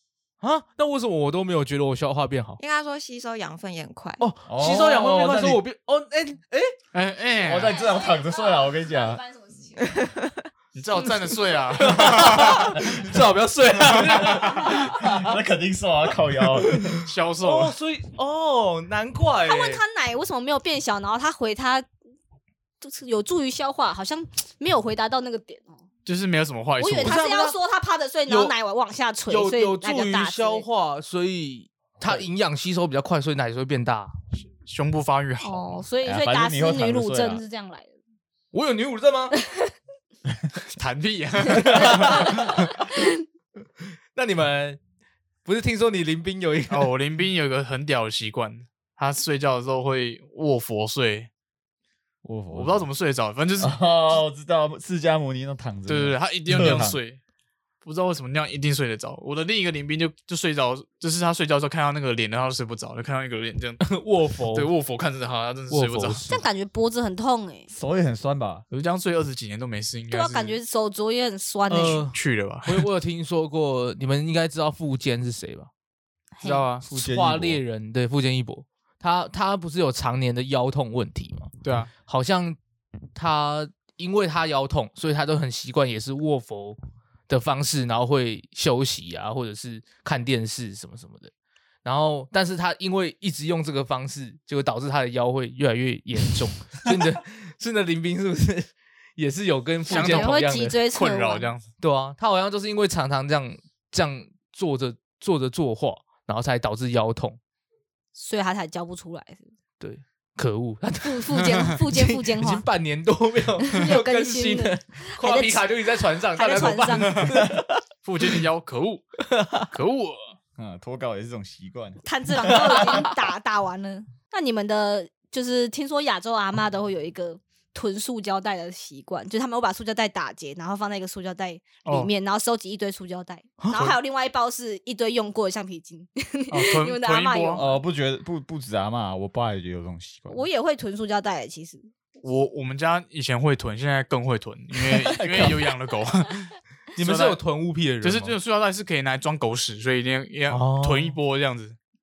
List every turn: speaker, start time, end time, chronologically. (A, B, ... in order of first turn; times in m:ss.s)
0:00.4-0:02.6 A
0:02.6-0:04.2 B
0:04.2-0:06.8 A
0:04.5-0:05.6 C
0:06.9-0:07.8 D
0:07.4-0:09.3 C
0:09.7-0:10.5 B
0:10.8-0:12.8 D
0:11.8-0:15.4 A
0:14.1-0:14.5 D
0:14.4-0:17.0 C
0:16.6-0:19.8 A
0:17.0-0:17.8 D
0:19.4-0:21.9 E
0:22.8-0:25.8 E
0:26.0-0:27.2 D
0:26.8-0:30.6 E
0:27.0-0:27.6 A
0:28.3-0:28.6 A
0:29.3-0:34.2 A
0:34.5-0:35.8 D
0:35.4-0:37.9 E
0:36.0-0:37.4 C
0:38.5-0:39.4 A
0:39.4-0:39.7 E
0:40.7-0:42.8 D
0:41.5-0:42.4 A
0:41.6-0:43.2 E
0:44.1-0:44.8 A
0:45.4-0:46.9 A
0:46.7-0:51.3 D
0:52.2-0:52.8 C
0:52.5-0:53.8 D
0:53.6-0:57.0 C
0:55.9-0:57.2 D
0:57.8-1:03.8 D
1:03.8-1:04.7 A
1:04.5-1:06.4 D
1:05.7-1:06.4 A
1:06.3-1:07.7 E
1:07.7-1:08.6 C
1:08.7-1:10.6 D
1:10.1-1:12.1 E
1:11.7-1:15.7 A
1:11.9-1:12.9 D
1:16.4-1:16.7 E
1:16.4-1:16.8 D
1:16.9-1:22.6 A
1:16.9-1:17.6 C
1:21.6-1:21.9 D
1:23.1-1:26.8 A
1:27.3-1:31.3 A
1:31.8-1:40.8 A
1:39.9-1:41.7 D
1:39.9-1:41.5 E
1:41.8-1:47.4 A
1:48.1-1:49.5 E
1:49.8-1:57.8 A
1:51.0-1:52.6 E
1:53.6-1:57.3 E
1:56.9-1:57.5 D
1:58.0-1:59.1 D
1:59.2-1:59.7 A
1:59.7-2:00.4 D
2:00.6-2:03.0 C
2:02.0-2:17.8 E
2:11.8-2:12.1 D
2:13.6-2:13.9 A
2:16.5-2:17.6 D
2:17.6-2:20.4 C
2:20.3-2:21.9 E
2:22.2-2:27.4 D
2:25.2-2:25.5 A
2:27.0-2:28.4 A
2:28.0-2:31.8 D
2:30.5-2:31.2 A